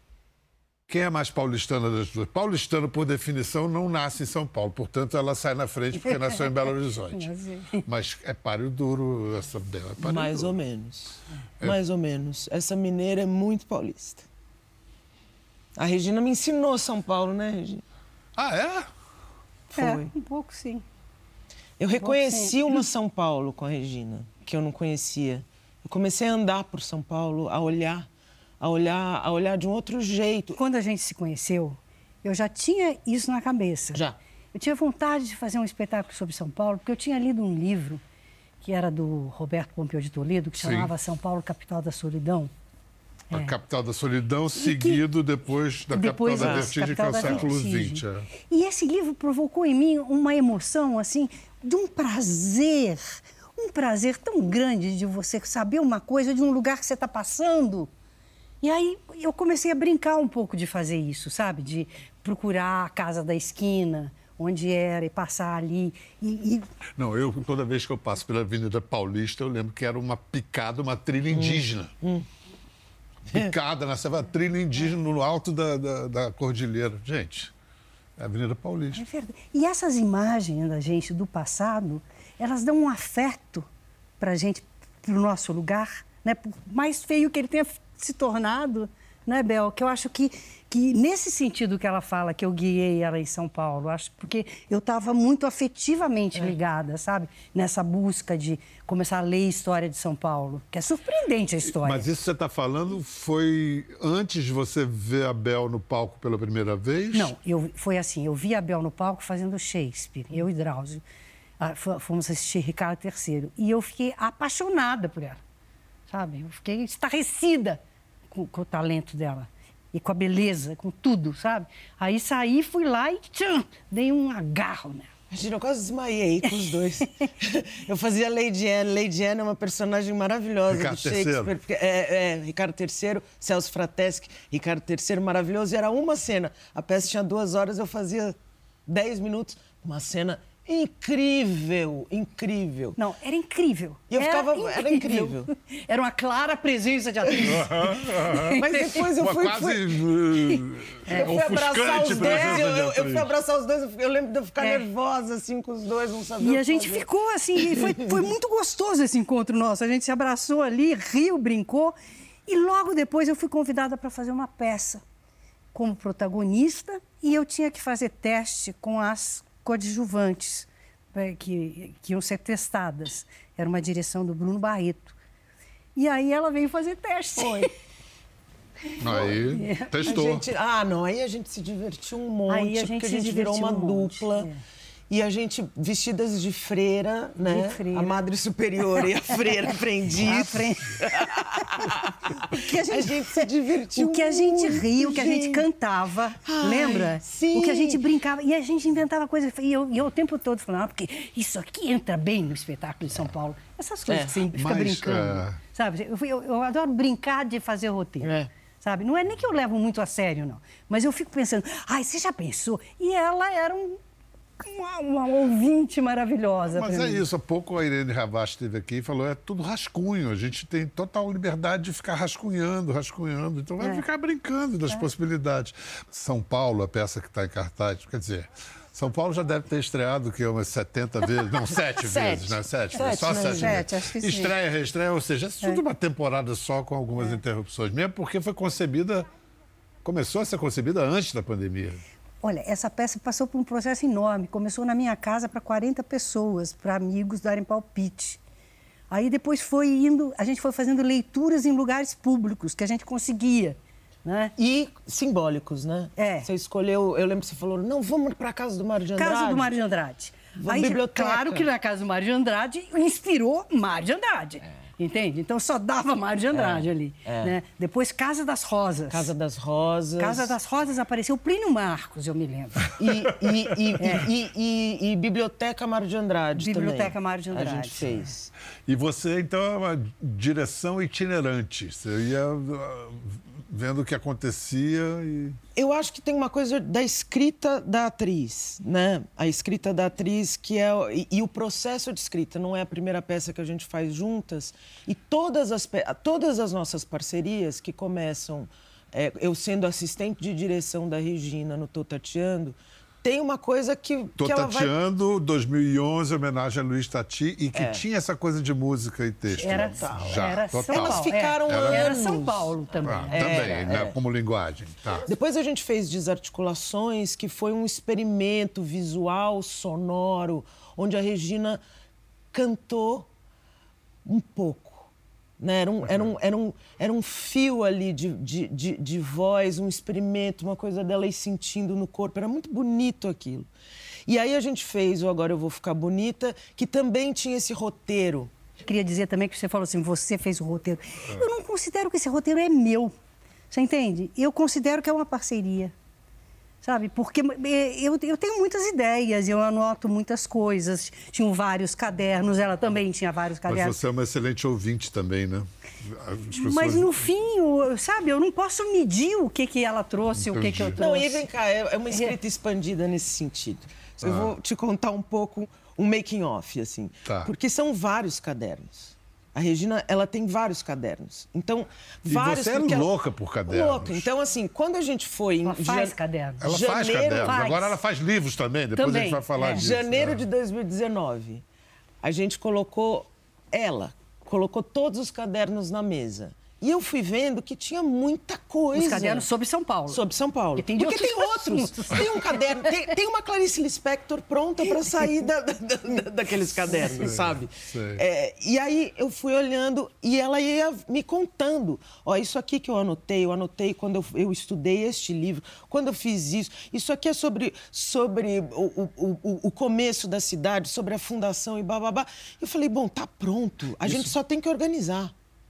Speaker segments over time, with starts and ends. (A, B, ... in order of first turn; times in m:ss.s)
0:00.9-0:07.3 A
0:06.0-0:06.5 B
0:07.1-0:07.8 B
0:07.8-0:10.5 A
0:10.0-0:14.3 C
0:15.8-0:17.8 C
0:18.4-0:18.9 A
0:19.7-0:20.1 C
0:19.8-0:20.8 B
0:21.8-0:28.1 C
0:22.0-0:22.8 B
0:28.6-0:30.6 C
0:30.6-0:34.0 B
0:34.5-0:38.0 B
0:38.6-0:42.5 B
0:40.6-0:40.9 A
0:43.3-0:43.6 B
0:43.3-0:48.3 A
0:44.6-0:45.0 B
0:45.9-0:57.9 B
0:46.4-0:47.5 C
0:58.6-1:06.7 B
1:07.0-1:11.9 A
1:11.3-1:12.3 C
1:13.3-1:17.5 A
1:18.2-1:19.0 A
1:18.9-1:23.7 B
1:24.2-1:42.1 B
1:41.7-1:47.3 A
1:47.1-1:51.0 B
1:51.6-1:55.4 B
1:56.1-1:57.8 B
1:58.3-2:05.1 B
2:05.3-2:18.4 C
2:10.7-2:11.5 A
2:18.9-2:23.0 C
2:23.0-2:29.0 B
2:24.1-2:25.5 C
2:27.4-2:28.6 A
2:28.5-2:30.0 C
2:29.2-2:33.3 A
2:31.1-2:31.4 B
2:31.1-2:37.0 C
2:31.9-2:32.6 B
2:34.6-2:34.9 B
2:36.4-2:42.0 B
2:37.6-2:38.2 C
2:42.5-2:45.0 B
2:45.7-2:55.2 B
2:56.0-2:57.7 B
2:57.4-2:57.7 C
2:59.0-3:00.4 A
2:59.5-3:00.1 B
3:00.0-3:04.5 C
3:02.5-3:04.6 B
3:05.1-3:15.7 C
3:07.5-3:08.2 B
3:10.2-3:34.0 B
3:16.4-3:18.0 C
3:24.1-3:24.4 C
3:24.5-3:25.6 A
3:28.2-3:28.5 C
3:34.6-3:37.2 B
3:36.7-3:59.3 A
3:52.0-3:53.8 C
3:53.1-3:54.5 B
4:00.0-4:02.0 A
4:02.4-4:08.4 B
4:09.1-4:14.5 B
4:14.6-4:19.8 C
4:16.2-4:16.5 B
4:19.2-4:29.3 B
4:20.6-4:21.7 C
4:26.5-4:27.6 C
4:29.1-4:30.6 C
4:30.2-4:32.9 B
4:33.0-4:38.5 C
4:34.0-4:34.2 B
4:36.6-4:38.3 B
4:38.9-4:45.6 A
4:45.8-5:04.9 C
5:04.4-5:12.1 A
5:07.8-5:08.0 C
5:09.5-5:14.2 C
5:09.6-5:13.7 B
5:13.0-5:15.3 A
5:15.3-5:21.8 C
5:22.5-5:23.3 C
5:24.2-5:33.7 C
5:26.1-5:26.3 A
5:34.3-5:38.5 C
5:38.9-5:43.1 B
5:43.7-5:45.9 B
5:46.8-5:54.0 B
5:53.7-5:57.2 A
5:56.5-6:01.5 B
6:00.3-6:01.0 A
6:01.0-6:13.1 C
6:04.2-6:04.5 A
6:07.3-6:07.5 A
6:12.2-6:14.3 A
6:13.7-6:17.8 C
6:15.6-6:16.7 B
6:16.6-6:20.4 A
6:17.4-6:17.9 B
6:19.0-6:19.8 B
6:19.6-6:21.6 C
6:22.2-6:29.5 C
6:28.9-6:30.2 B
6:30.1-6:55.3 C
6:30.8-6:32.6 B
6:37.1-6:38.2 A
6:54.0-6:54.3 A